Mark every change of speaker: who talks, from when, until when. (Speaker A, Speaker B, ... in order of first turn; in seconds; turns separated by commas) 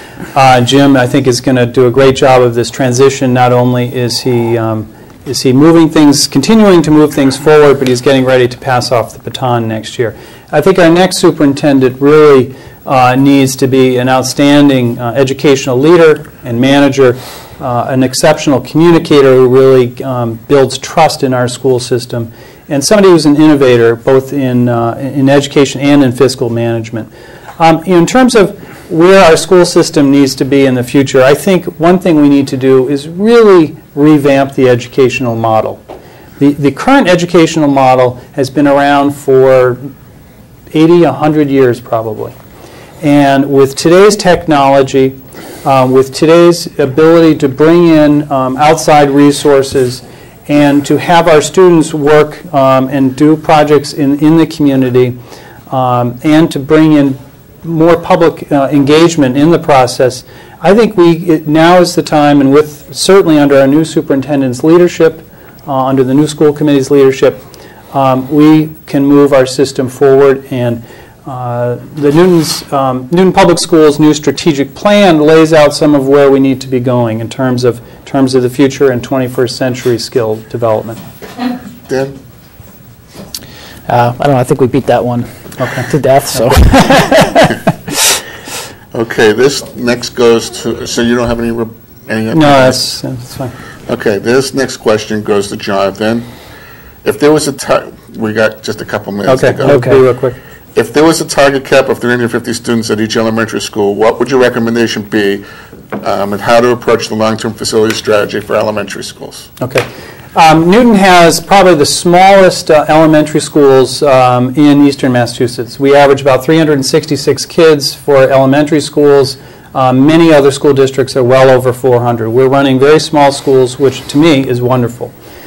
Speaker A: 0.3-35.8, Speaker A: 36.4-39.8, Speaker A: 40.7-42.4, Speaker A: 43.0-55.2, Speaker A: 55.7-81.0, Speaker B: 81.9-82.2, Speaker C: 83.9-87.7, Speaker A: 85.6-86.4, Speaker B: 88.9-92.9, Speaker A: 92.3-93.5, Speaker B: 93.9-96.3, Speaker B: 97.0-99.9, Speaker A: 99.3-100.4, Speaker C: 99.6-100.0, Speaker B: 100.8-105.4, Speaker B: 106.0-109.5, Speaker A: 109.6-125.1